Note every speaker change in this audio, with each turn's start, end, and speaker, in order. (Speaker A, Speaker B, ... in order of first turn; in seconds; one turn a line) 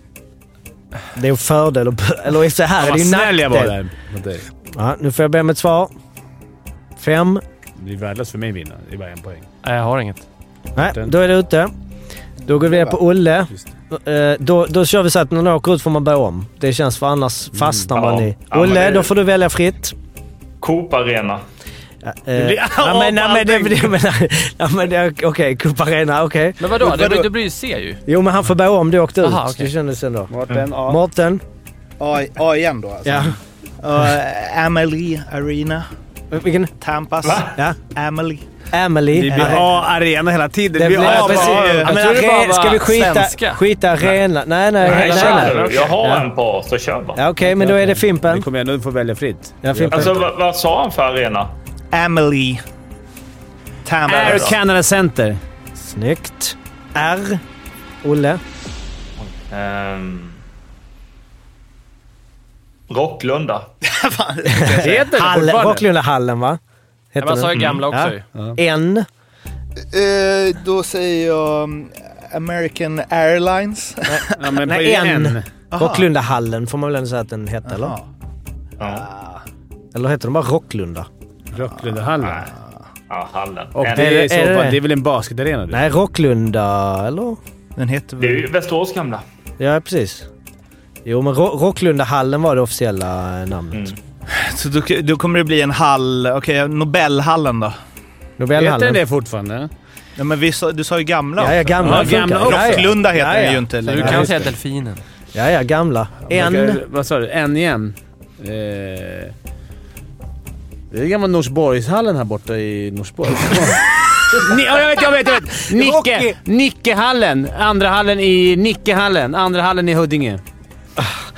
Speaker A: 1.1-3.8
Speaker B: 2.8-4.5
Speaker A: 4.7-5.9
Speaker A: 7.0-7.4
Speaker B: 7.8-9.5
Speaker C: 9.6-10.2
Speaker A: 10.8-11.7
Speaker B: 10.8-11.1
Speaker A: 12.4-19.9
Speaker D: 12.7-13.0
Speaker B: 17.5-17.9
Speaker E: 17.9-19.1
Speaker E: 20.6-21.4
Speaker A: 22.0-26.7
Speaker B: 22.3-23.9
Speaker C: 26.6-28.0
Speaker D: 26.8-27.3
Speaker A: 28.1-31.4
Speaker C: 29.2-29.7
Speaker B: 30.3-31.0
Speaker D: 32.0-35.9
Speaker A: 33.0-33.4
Speaker A: 36.3-36.7
Speaker D: 36.8-38.5
Speaker E: 37.2-37.6
Speaker A: 38.7-39.7
Speaker B: 39.1-41.9
Speaker D: 39.3-39.6
Speaker A: 40.8-46.3
Speaker D: 41.0-41.9
Speaker C: 41.8-43.6
Speaker E: 44.8-47.2
Speaker C: 44.9-45.9
Speaker A: 47.2-48.5
Speaker B: 47.4-50.2
Speaker A: 49.6-50.2
Speaker E: 49.9-51.5
Speaker D: 51.9-52.6
Speaker D: 53.8-54.6
Speaker B: 54.1-55.4
Speaker E: 54.1-54.5
Speaker A: 55.8-57.4
Speaker A: 58.0-58.4
Speaker E: 59.2-60.4
Speaker E: 62.9-63.7
Speaker D: 63.8-65.0
Speaker A: 64.5-66.6
Speaker B: 64.8-65.8
Speaker A: 67.1-69.1
Speaker C: 67.2-68.2
Speaker D: 69.9-74.3
Speaker A: 74.1-78.0
Speaker B: 74.4-75.5
Speaker D: 75.7-76.1
Speaker D: 77.7-78.1
Speaker E: 78.8-79.1
Speaker D: 78.8-79.4
Speaker A: 79.9-81.1
Speaker B: 81.5-82.5
Speaker D: 82.2-82.6
Speaker E: 83.1-84.1
Speaker B: 83.8-85.8
Speaker A: 83.9-84.8
Speaker A: 85.7-87.4
Speaker D: 87.8-88.5
Speaker E: 88.2-89.2
Speaker A: 89.6-90.3
Speaker A: 91.0-93.9
Speaker E: 93.7-94.0
Speaker D: 94.3-97.8
Speaker A: 98.4-99.0
Speaker B: 98.6-99.7
Speaker D: 100.2-104.5
Speaker A: 101.4-104.3
Speaker B: 101.8-103.0
Speaker C: 103.8-105.0
Speaker A: 105.3-106.8
Speaker B: 106.3-109.3
Speaker B: 110.9-120.4
Speaker A: 115.8-116.3